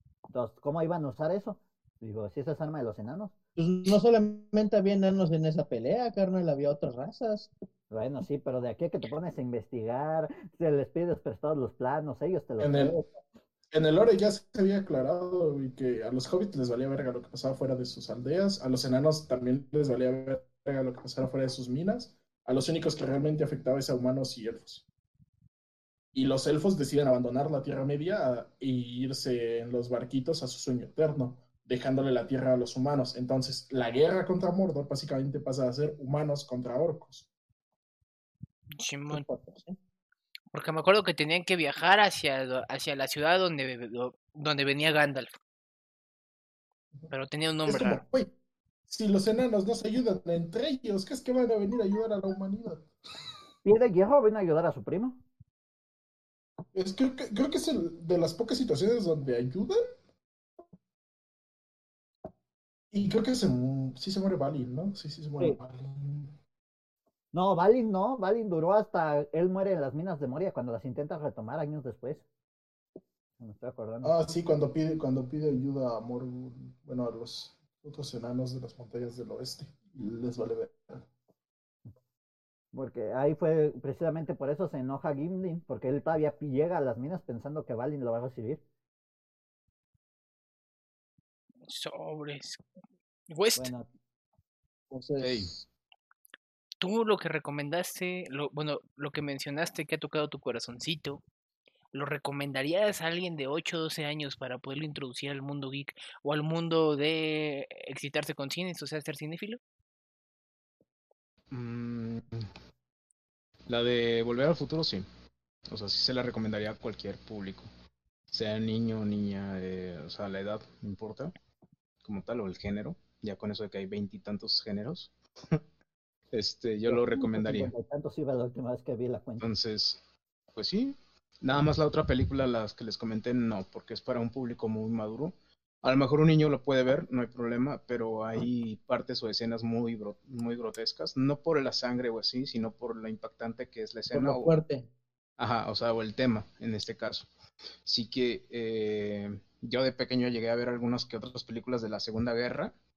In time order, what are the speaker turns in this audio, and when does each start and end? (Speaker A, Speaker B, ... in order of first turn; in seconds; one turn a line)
Speaker A: 0.3-3.3
Speaker B: 3.6-7.5
Speaker A: 7.9-13.0
Speaker C: 12.6-13.1
Speaker C: 13.7-24.8
Speaker C: 26.1-37.3
Speaker D: 38.8-39.2
Speaker B: 39.1-39.8
Speaker D: 40.5-45.3
Speaker D: 47.1-48.0
Speaker C: 47.7-48.3
Speaker C: 48.9-52.9
Speaker A: 53.6-55.2
Speaker C: 56.7-59.8
Speaker C: 62.9-66.3
Speaker A: 67.3-72.2
Speaker A: 73.4-74.1
Speaker C: 74.0-81.0
Speaker A: 82.7-88.6
Speaker D: 91.7-92.6
Speaker D: 93.3-93.7
Speaker A: 93.6-93.9
Speaker B: 94.9-95.7
Speaker E: 95.2-95.5
Speaker D: 96.8-101.2
Speaker D: 101.9-109.6
Speaker E: 111.5-112.5
Speaker E: 113.7-115.1
Speaker E: 115.7-117.7
Speaker E: 118.3-121.3
Speaker E: 122.0-125.6
Speaker E: 126.3-127.7
Speaker A: 126.9-129.5
Speaker E: 129.4-130.0
Speaker E: 130.6-144.5
Speaker B: 144.1-144.9
Speaker E: 145.4-147.3
Speaker E: 147.8-152.7